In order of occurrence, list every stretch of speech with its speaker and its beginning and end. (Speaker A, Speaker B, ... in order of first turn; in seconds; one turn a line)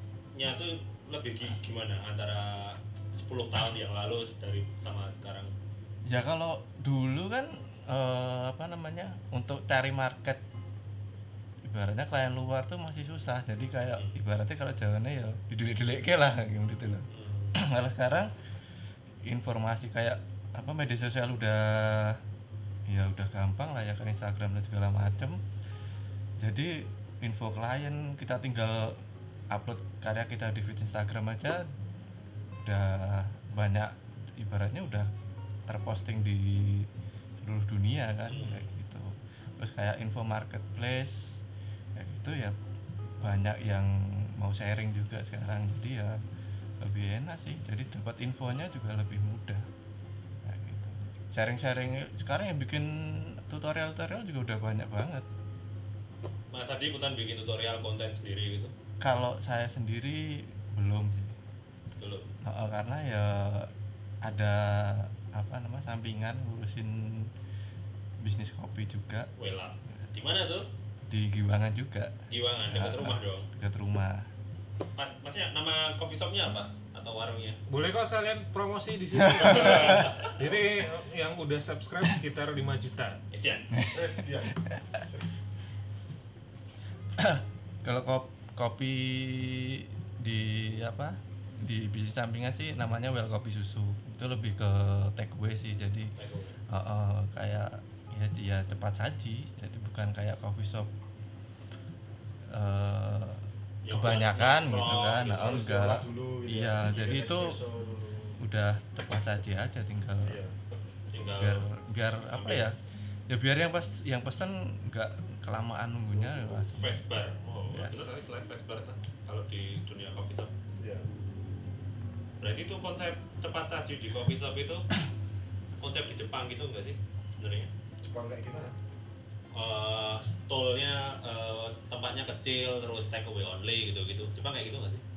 Speaker A: 0.3-5.5
Speaker B: 6.1-10.4
Speaker B: 11.6-18.3
Speaker A: 17.1-17.6
Speaker B: 19.3-22.2
Speaker B: 22.9-25.4
Speaker B: 26.4-29.0
Speaker B: 29.5-31.7
Speaker B: 32.6-35.1
Speaker B: 35.7-36.9
Speaker B: 37.4-41.4
Speaker A: 38.3-38.7
Speaker B: 42.0-42.6
Speaker B: 43.2-46.2
Speaker B: 46.8-49.7
Speaker B: 50.4-55.3
Speaker A: 56.5-58.7
Speaker B: 59.0-61.4
Speaker A: 62.0-62.3
Speaker B: 62.4-63.7
Speaker B: 64.2-67.3
Speaker B: 68.2-69.3
Speaker A: 69.4-70.7
Speaker B: 71.1-74.3
Speaker A: 72.3-73.5
Speaker A: 75.0-77.6
Speaker C: 77.7-83.2
Speaker B: 79.1-80.1
Speaker A: 79.5-80.4
Speaker A: 83.3-83.7
Speaker B: 83.7-85.0
Speaker D: 83.9-84.6
Speaker B: 87.2-96.1
Speaker A: 96.2-96.6
Speaker B: 96.7-100.9
Speaker B: 102.5-107.6
Speaker A: 103.8-105.7
Speaker D: 105.4-108.4
Speaker B: 108.4-110.4
Speaker D: 110.2-110.5
Speaker A: 111.1-111.7
Speaker B: 111.4-112.8
Speaker A: 112.3-112.7
Speaker B: 113.3-117.0
Speaker D: 116.1-116.8
Speaker A: 116.8-120.5
Speaker B: 117.7-118.3
Speaker D: 120.8-121.1
Speaker A: 122.4-124.9
Speaker A: 125.8-127.7
Speaker D: 128.0-128.8
Speaker A: 129.5-135.0